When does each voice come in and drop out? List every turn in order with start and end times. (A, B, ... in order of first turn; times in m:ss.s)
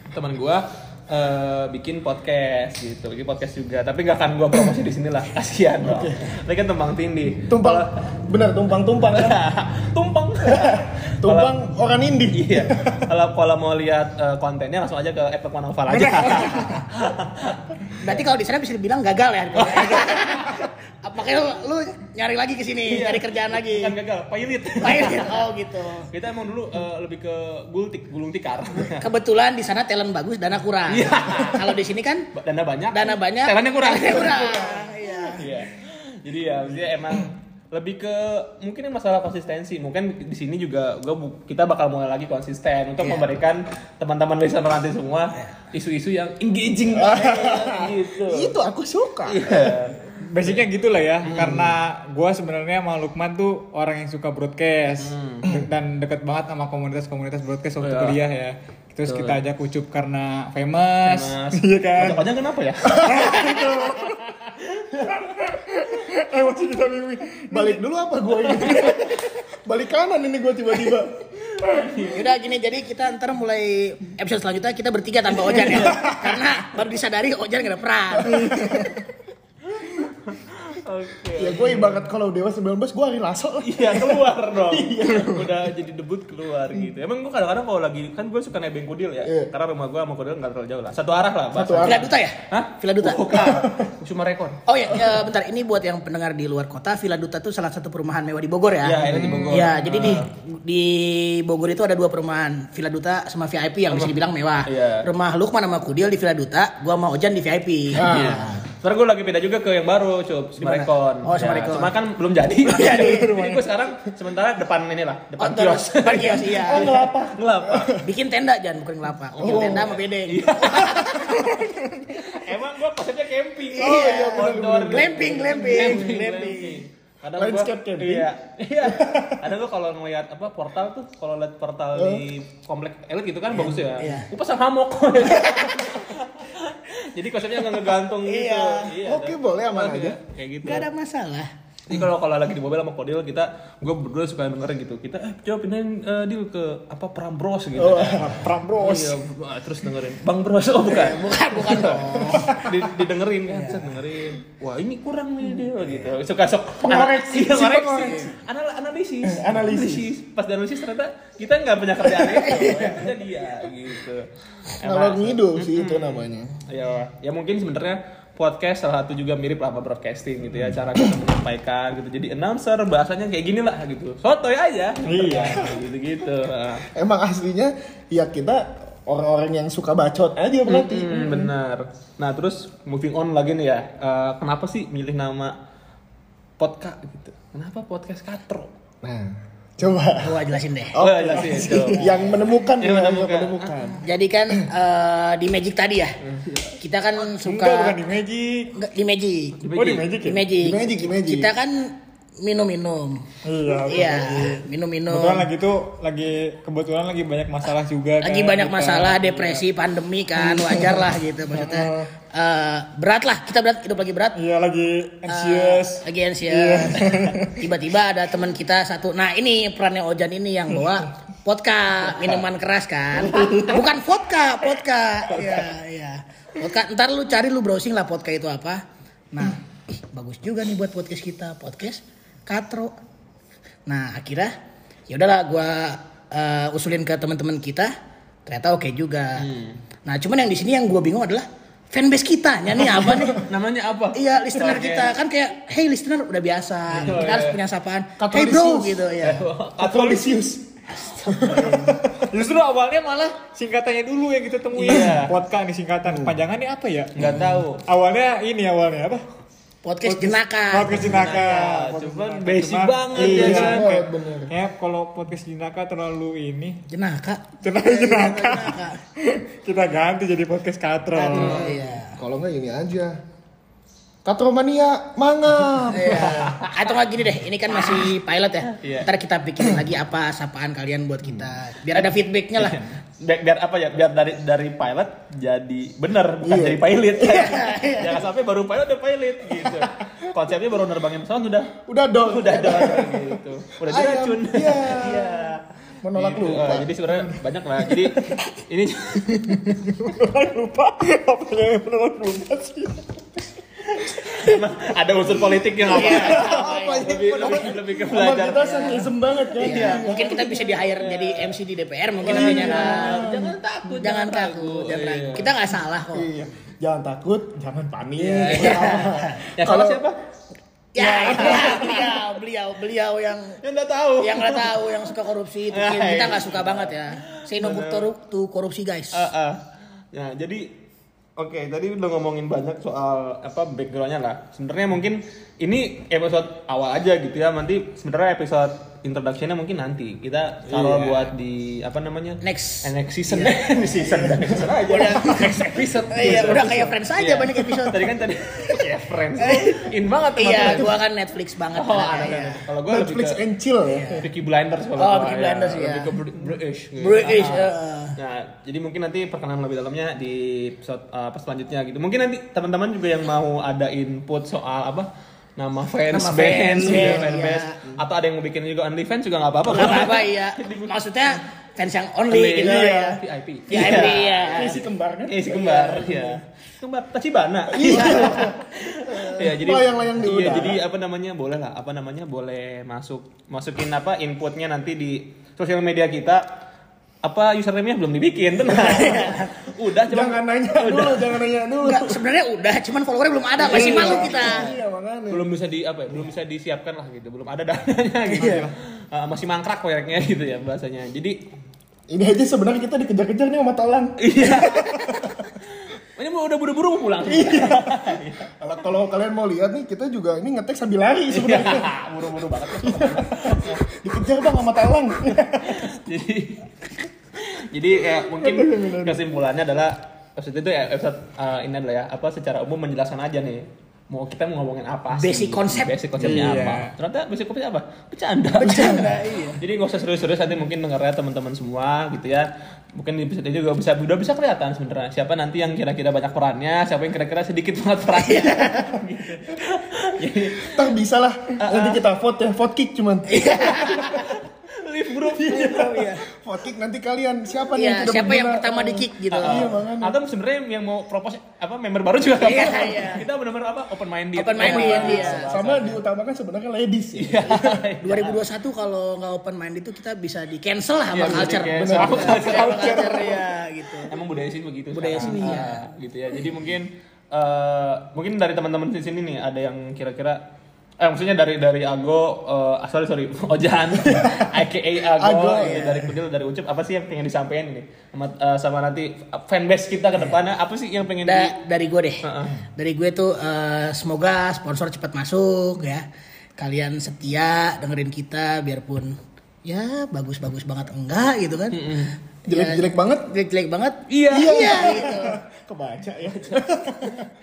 0:00.1-0:08.0 A
0:05.8-0:06.2 B
0:07.5-0:09.4 B
0:09.1-0:11.6 A
0:10.4-0:13.1 B
0:12.3-0:17.9 A
0:16.0-0:16.7 C
0:18.0-0:24.0 D
0:19.6-0:20.6 A
0:22.9-0:25.4 A
0:24.8-0:26.1 D
0:26.1-0:29.0 A
0:29.0-0:32.3 D
0:30.9-0:31.8 A
0:32.3-0:48.5 A
0:32.9-0:35.5 D
0:43.0-0:43.3 D
0:46.9-0:49.8 B
0:49.3-0:50.6 A
0:50.2-1:02.3 C
0:51.2-0:51.7 A
0:55.0-0:55.5 A
0:57.8-0:58.2 A
0:59.1-0:59.4 A
1:01.0-1:05.2 A
1:02.9-1:04.2 C
1:05.3-1:07.8 C
1:07.5-1:11.2 B
1:11.5-1:12.3 A
1:12.1-1:18.9 D
1:18.2-1:18.9 B
1:19.7-1:22.0 A
1:21.4-1:25.6 B
1:23.6-1:34.6 A
1:29.2-1:29.5 B
1:31.5-1:32.2 B
1:31.8-1:33.6 D
1:33.5-1:33.8 B
1:34.7-1:48.6 D
1:38.8-1:40.3 A
1:39.1-1:39.6 B
1:43.9-1:45.1 A
1:47.9-1:48.6 B
1:48.0-1:58.0 A
1:50.6-1:52.0 D
1:52.6-1:53.3 D
1:52.8-1:53.7 C
1:55.4-1:57.0 D
1:56.6-1:58.1 B
1:58.0-2:01.5 D
1:59.3-2:01.5 A
1:59.4-2:00.0 B
2:02.1-2:20.9 A
2:03.8-2:06.8 D
2:03.8-2:06.2 B
2:07.4-2:08.3 B
2:08.8-2:09.4 B
2:11.9-2:12.2 B
2:13.6-2:14.3 D
2:15.4-2:15.9 D
2:18.2-2:18.9 D
2:19.0-2:20.2 B
2:20.6-2:21.5 D
2:21.9-2:56.9 A
2:27.8-2:28.5 B
2:28.2-2:29.2 C
2:30.8-2:32.7 D
2:32.3-2:32.6 B
2:33.5-2:33.9 D
2:36.8-2:38.4 B
2:39.2-2:40.1 B
2:42.2-2:43.0 D
2:44.8-2:46.6 B
2:55.0-2:55.8 C
2:56.9-3:01.5 B
3:00.7-3:05.6 A
3:06.6-3:08.7 A
3:09.0-3:14.0 B
3:10.2-3:12.3 D
3:11.0-3:12.2 A
3:12.8-3:13.8 A
3:14.0-3:16.2 D
3:16.2-3:16.8 A
3:16.8-3:18.0 D
3:17.2-3:18.7 C
3:18.7-3:19.6 D
3:19.6-3:20.1 A
3:19.7-3:20.4 C
3:20.2-3:23.2 D
3:20.6-3:21.5 B
3:23.4-3:29.6 C
3:23.8-3:25.5 D
3:28.2-3:34.4 D
3:30.5-3:32.1 C
3:34.4-3:37.7 C
3:35.3-3:52.9 D
3:53.9-3:54.5 D
3:55.1-3:57.9 D
3:58.5-3:59.5 D
3:59.4-3:59.8 A
4:00.0-4:03.5 D
4:03.4-4:05.1 A
4:04.2-4:09.5 D
4:06.9-4:07.6 A
4:08.2-4:09.1 B
4:09.2-4:10.4 A
4:09.8-4:10.7 B
4:11.1-4:11.9 A
4:11.3-4:12.3 B
4:12.2-4:19.2 C
4:14.7-4:15.4 A
4:16.1-4:16.4 B
4:17.2-4:17.8 A
4:19.8-4:21.6 D
4:20.0-4:26.8 C
4:21.0-4:23.9 A
4:23.2-4:24.5 B
4:26.9-4:29.0 D
4:27.6-4:31.7 C
4:31.1-4:32.2 D
4:31.3-4:31.8 A
4:32.1-4:33.2 B
4:34.2-4:36.6 B
4:35.9-4:42.8 D
4:36.2-4:37.0 A
4:38.8-4:39.1 A
4:42.0-4:55.6 A
4:46.4-4:47.5 B
4:47.2-4:48.2 D
4:51.8-4:55.5 B
4:56.0-4:57.0 B
4:56.1-4:59.4 A
4:59.2-5:03.1 C
5:03.9-5:11.6 A
5:05.8-5:07.6 D
5:06.0-5:10.6 B
5:08.6-5:09.1 D
5:09.6-5:13.3 D
5:12.2-5:15.6 A
5:12.2-5:13.5 B
5:13.9-5:16.3 D
5:16.1-5:20.0 B
5:18.2-5:19.0 A
5:18.4-5:19.4 D
5:19.6-5:20.2 A
5:21.0-5:23.6 D
5:21.0-5:22.2 A
5:21.0-5:21.9 B
5:23.6-5:25.1 A
5:24.2-5:29.3 D
5:25.7-5:28.1 A
5:29.1-5:29.6 A
5:30.1-5:30.7 A
5:31.4-5:50.9 A
5:40.7-5:41.2 B
5:42.4-5:43.6 D
5:44.2-5:45.4 B
5:44.8-5:48.9 D
5:46.3-5:46.7 B
5:49.4-5:52.6 D
5:51.7-5:53.4 A
5:52.9-5:54.2 B
5:53.8-5:54.3 D
5:54.2-6:11.0 A
5:55.0-5:56.1 D
5:57.0-5:58.2 D
6:06.1-6:07.8 D
6:06.8-6:07.2 B
6:09.7-6:14.8 D
6:12.3-6:26.4 A
6:12.6-6:13.2 B
6:13.7-6:16.4 B
6:17.7-6:18.6 B
6:17.8-6:18.5 D
6:19.1-6:20.8 B
6:27.2-6:31.4 A
6:28.7-6:29.5 D
6:30.1-6:32.2 B
6:31.8-6:34.7 D
6:33.6-6:34.8 A
6:33.6-6:35.4 B
6:35.3-6:41.4 A
6:38.3-6:38.7 D
6:38.4-6:38.7 C
6:42.1-6:45.2 B
6:44.2-6:48.5 A
6:47.2-6:48.0 B
6:48.6-6:51.9 B
6:51.3-6:53.8 A
6:52.8-6:55.8 B
6:55.3-6:56.8 A
6:57.4-7:20.8 A
6:58.2-6:59.2 B
7:05.1-7:06.0 D
7:06.2-7:06.9 C
7:08.6-7:09.6 D
7:08.7-7:09.1 B
7:18.2-7:19.0 D
7:20.6-7:23.7 B
7:21.6-7:22.0 A
7:23.3-7:24.3 D
7:23.7-7:26.2 A
7:25.4-7:26.2 D
7:25.5-7:30.2 B
7:27.7-7:29.7 D
7:29.3-7:36.0 A
7:32.4-7:33.3 D
7:34.4-7:35.5 D
7:34.6-7:37.8 B
7:37.2-7:38.4 A
7:38.0-7:44.2 D
7:41.1-7:43.2 B
7:41.1-7:43.5 A
7:44.1-7:50.4 A
7:44.9-7:45.9 D
7:45.3-7:45.6 B
7:51.0-8:01.6 A
7:55.2-7:56.1 B
7:55.6-7:56.0 D
8:01.2-8:02.2 D
8:02.2-8:02.6 A
8:02.8-8:06.1 D
8:06.6-8:15.4 D
8:11.7-8:12.2 A
8:12.5-8:13.3 B
8:14.1-8:15.1 A
8:14.3-8:17.3 B
8:16.3-8:17.2 A